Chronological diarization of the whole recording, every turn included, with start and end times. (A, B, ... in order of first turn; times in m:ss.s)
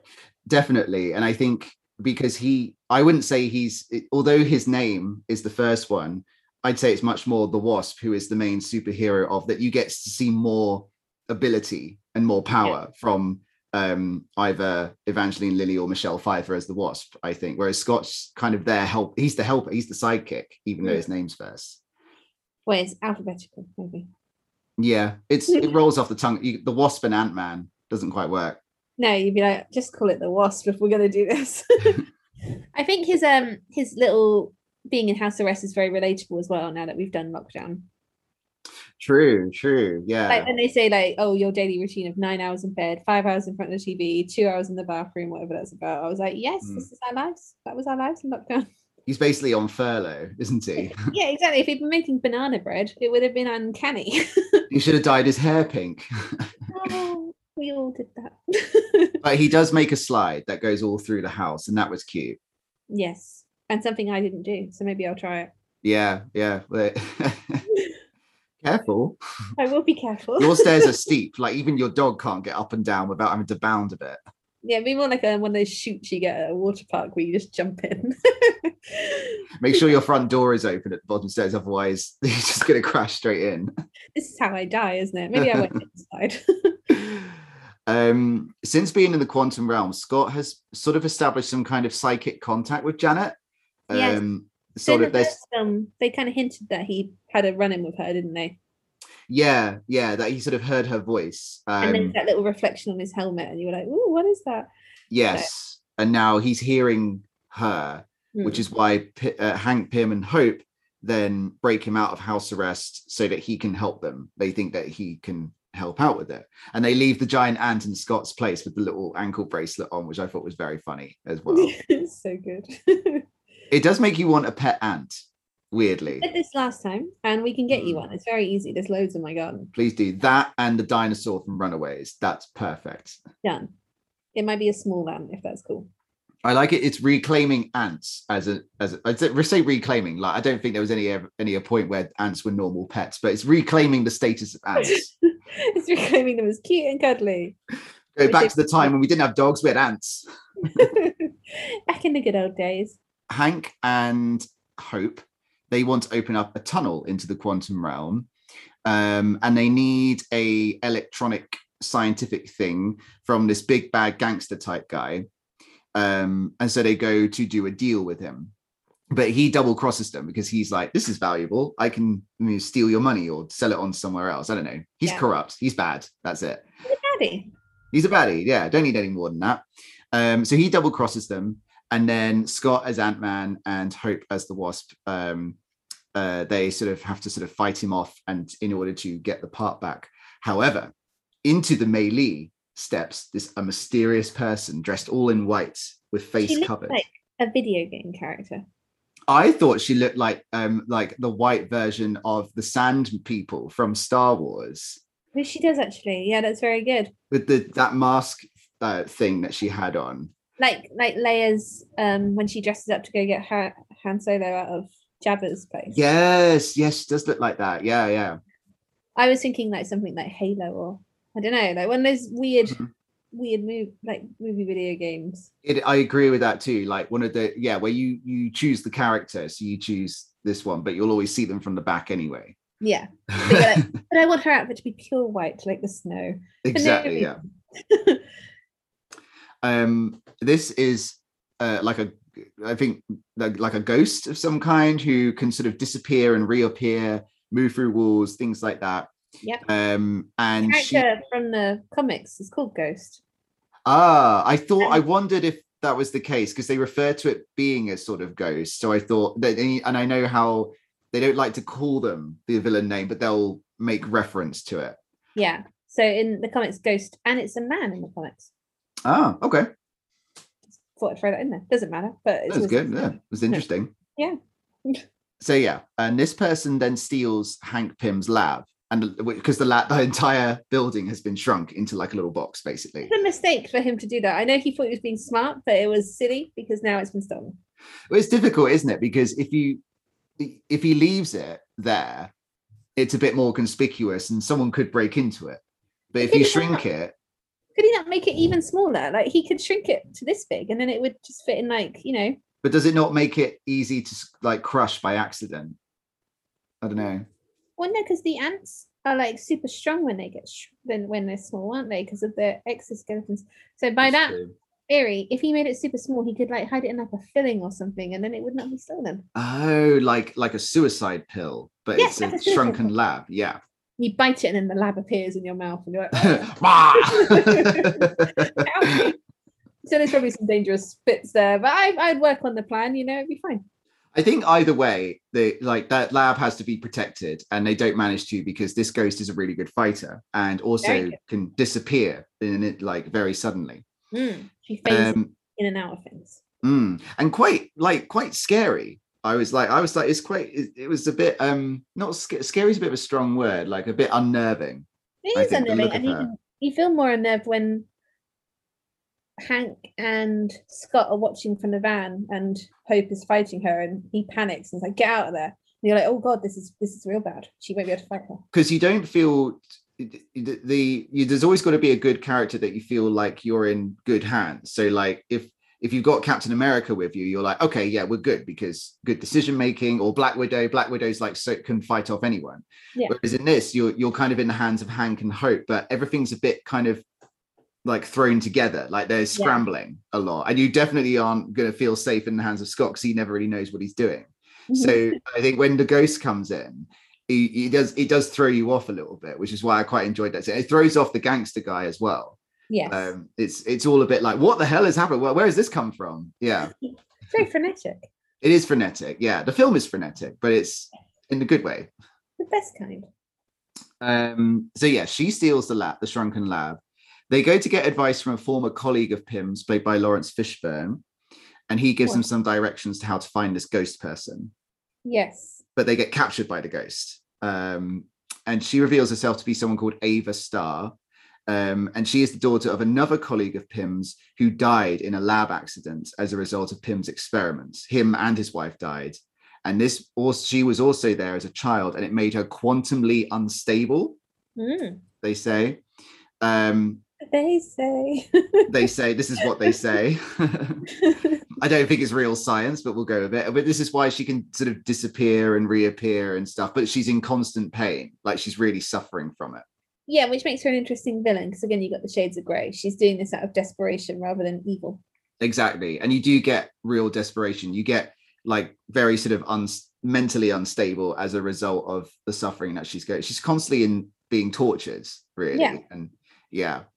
0:00.5-0:21.8 A
0:22.7-0:24.1 B
0:24.8-0:28.6 A
0:29.0-0:32.0 B
0:32.7-0:37.8 B
0:39.0-0:40.5 A
0:40.3-0:48.7 B
0:49.1-0:51.1 A
0:50.8-0:54.6 B
0:54.7-0:56.5 A
0:56.7-0:59.2 B
0:59.2-1:02.4 A
1:02.9-1:05.5 B
1:05.8-1:07.6 A
1:08.6-1:09.2 A
1:09.6-1:11.0 B
1:10.4-1:14.2 A
1:14.6-1:19.9 B
1:19.6-1:23.7 A
1:24.1-1:27.0 B
1:25.3-1:25.7 A
1:27.9-1:33.4 A
1:33.9-1:35.4 A
1:33.9-1:34.2 B
1:34.8-1:38.6 B
1:39.3-1:42.1 A
1:41.8-1:44.7 B
1:45.1-2:01.7 A
1:48.3-1:48.6 B
2:01.5-2:03.2 B
2:03.7-2:05.1 A
2:05.7-2:06.2 A
2:06.2-2:09.7 B
2:07.7-2:08.0 A
2:09.7-2:13.2 A
2:14.3-2:15.9 B
2:16.4-2:25.1 A
2:24.8-2:27.6 B
2:28.2-2:30.2 A
2:28.2-2:28.9 B
2:30.6-2:33.0 B
2:33.3-2:38.3 A
2:38.8-2:45.2 A
2:45.9-2:48.5 A
2:49.1-2:56.6 A
2:56.8-2:57.5 B
2:57.9-3:05.6 A
3:06.1-3:10.9 A
3:11.4-3:17.0 A
3:16.4-3:18.6 B
3:19.3-3:25.0 A
3:25.3-3:27.1 B
3:27.3-3:30.3 A
3:30.6-3:36.0 B
3:35.9-3:38.4 A
3:39.2-3:45.5 B
3:45.6-3:52.6 A
3:52.8-3:58.2 B
3:53.3-3:53.9 A
3:56.6-3:57.4 A
3:59.6-4:09.1 A
4:09.6-4:11.0 A
4:10.6-4:13.2 B
4:13.9-4:25.0 A
4:25.4-4:28.5 B
4:29.0-4:29.7 A
4:31.0-4:33.6 B
4:32.5-4:33.9 A
4:34.2-4:35.0 B
4:35.4-4:43.1 A
4:43.0-4:47.6 B
4:48.1-4:49.8 A
4:50.4-4:52.3 A
4:53.0-4:55.6 A
4:56.1-4:57.1 A
4:56.2-4:56.8 B
4:57.8-5:02.4 B
5:02.6-5:05.8 A
5:06.8-5:07.2 A
5:07.8-5:19.2 B
5:14.0-5:14.5 A
5:19.3-5:23.6 A
5:22.0-5:22.9 B
5:24.0-5:29.2 B
5:26.2-5:29.1 A
5:29.8-5:33.6 B
5:34.1-5:43.8 A
5:40.8-5:41.2 B
5:44.1-5:46.4 B
5:44.8-5:45.3 A
5:46.6-5:56.3 A
5:55.2-5:57.9 B
5:59.4-6:08.4 B
6:08.5-6:27.0 A
6:27.8-6:46.7 A
6:29.3-6:29.6 B
6:34.7-6:35.2 B
6:42.7-6:43.1 B
6:47.3-6:48.1 B
6:48.4-6:51.9 A
6:52.4-6:53.1 B
6:54.0-7:01.0 A
7:01.7-7:04.5 A
7:05.0-7:05.6 B
7:05.8-7:10.9 A
7:11.5-7:24.2 A
7:24.6-7:25.0 B
7:25.2-7:25.8 A
7:26.4-7:27.0 A
7:27.2-7:28.7 B
7:28.7-7:30.9 A
7:29.4-7:29.7 B
7:30.9-7:31.4 B
7:31.6-7:39.6 A
7:40.1-7:45.0 B
7:45.4-7:56.8 A
7:55.5-7:55.8 B